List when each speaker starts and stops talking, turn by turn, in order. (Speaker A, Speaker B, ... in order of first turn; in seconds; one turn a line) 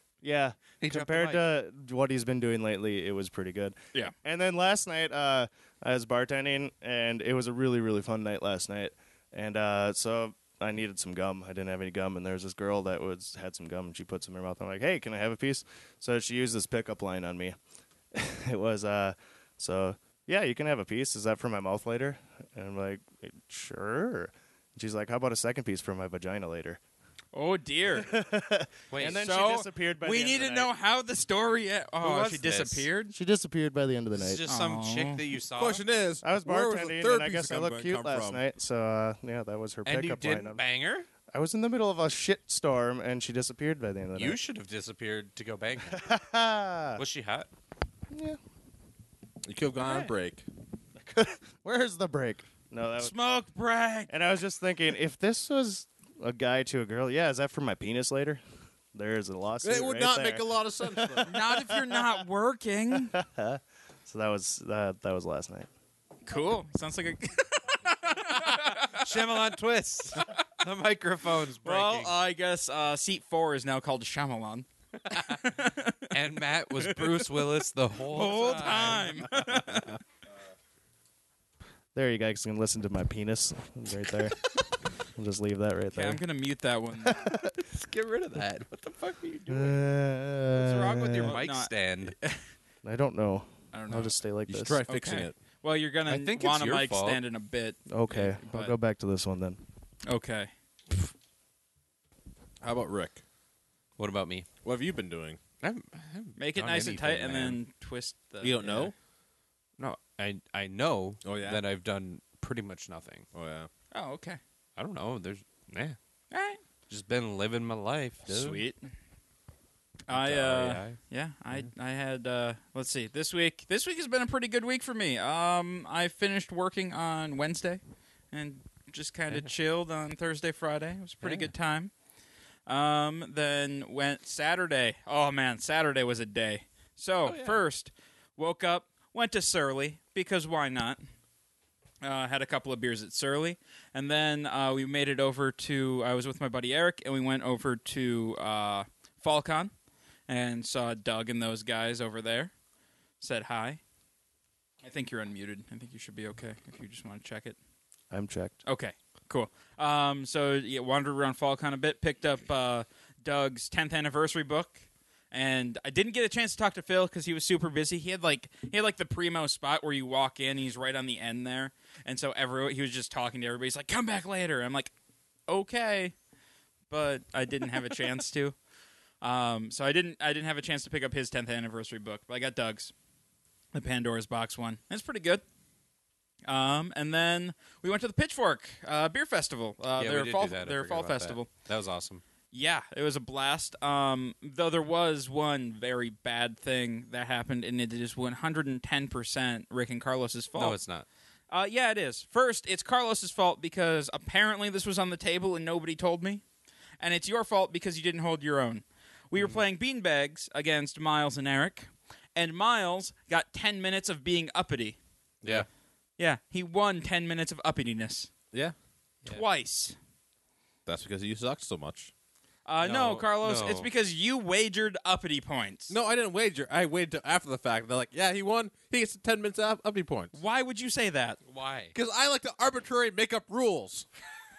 Speaker A: 0.2-17.6
Speaker B: 0.8-1.4
Speaker A: 18.1-26.8
Speaker C: 27.3-28.1
Speaker A: 27.9-30.7
Speaker B: 28.9-29.2
Speaker C: 29.0-33.1
Speaker B: 32.0-32.9
Speaker A: 33.1-34.4
Speaker B: 34.1-35.8
Speaker C: 34.5-35.2
Speaker D: 35.6-38.4
Speaker A: 36.2-40.6
Speaker B: 39.9-41.1
Speaker A: 41.3-44.4
Speaker B: 44.1-46.1
Speaker A: 45.9-47.0
Speaker B: 47.0-47.5
Speaker A: 48.1-48.4
Speaker D: 49.4-50.5
Speaker A: 51.1-53.1
Speaker C: 53.0-54.1
Speaker A: 54.1-58.4
Speaker A: 58.9-61.8
Speaker D: 59.6-61.3
Speaker C: 61.2-63.2
Speaker A: 63.1-65.7
Speaker C: 66.2-69.2
Speaker B: 68.5-72.2
Speaker C: 71.6-76.1
Speaker B: 76.1-79.5
Speaker C: 76.8-77.3
Speaker C: 78.1-80.0
Speaker A: 82.0-86.2
Speaker C: 85.9-87.3
Speaker A: 87.0-87.5
Speaker B: 87.6-89.8
Speaker A: 89.5-91.3
Speaker B: 90.5-92.2
Speaker C: 91.2-92.4
Speaker A: 92.8-94.8
Speaker C: 93.7-94.2
Speaker D: 94.5-95.4
Speaker C: 94.9-98.7
Speaker B: 96.1-97.2
Speaker A: 97.9-99.6
Speaker B: 98.1-98.4
Speaker C: 100.0-100.5
Speaker D: 102.6-103.2
Speaker B: 104.0-104.5
Speaker D: 104.6-105.4
Speaker B: 105.6-107.6
Speaker C: 106.4-108.9
Speaker D: 108.4-108.9
Speaker B: 109.8-113.3
Speaker D: 111.2-111.6
Speaker D: 113.3-113.7
Speaker C: 113.9-114.4
Speaker B: 114.8-116.0
Speaker C: 116.3-116.6
Speaker B: 116.9-118.6
Speaker C: 118.3-118.9
Speaker C: 120.1-127.8
Speaker B: 120.1-121.0
Speaker C: 128.3-131.9
Speaker B: 131.2-131.5
Speaker C: 132.7-141.0
Speaker B: 137.3-137.6
Speaker C: 142.0-149.7
Speaker C: 150.3-152.5
Speaker C: 153.2-153.8
Speaker C: 154.8-157.6
Speaker A: 158.1-158.6
Speaker C: 158.7-174.9
Speaker C: 175.5-176.1
Speaker C: 176.9-178.6
Speaker C: 179.2-182.9
Speaker C: 183.7-185.4
Speaker C: 186.4-191.5
Speaker B: 190.0-192.2
Speaker C: 192.5-200.8
Speaker B: 200.6-201.1
Speaker C: 201.5-206.4
Speaker C: 207.0-215.0
Speaker C: 216.2-218.3
Speaker C: 219.3-220.0
Speaker D: 220.9-222.1
Speaker C: 222.7-226.0
Speaker B: 222.8-223.9
Speaker D: 225.9-230.4
Speaker C: 230.3-231.4
Speaker B: 231.4-231.9
Speaker D: 231.9-234.1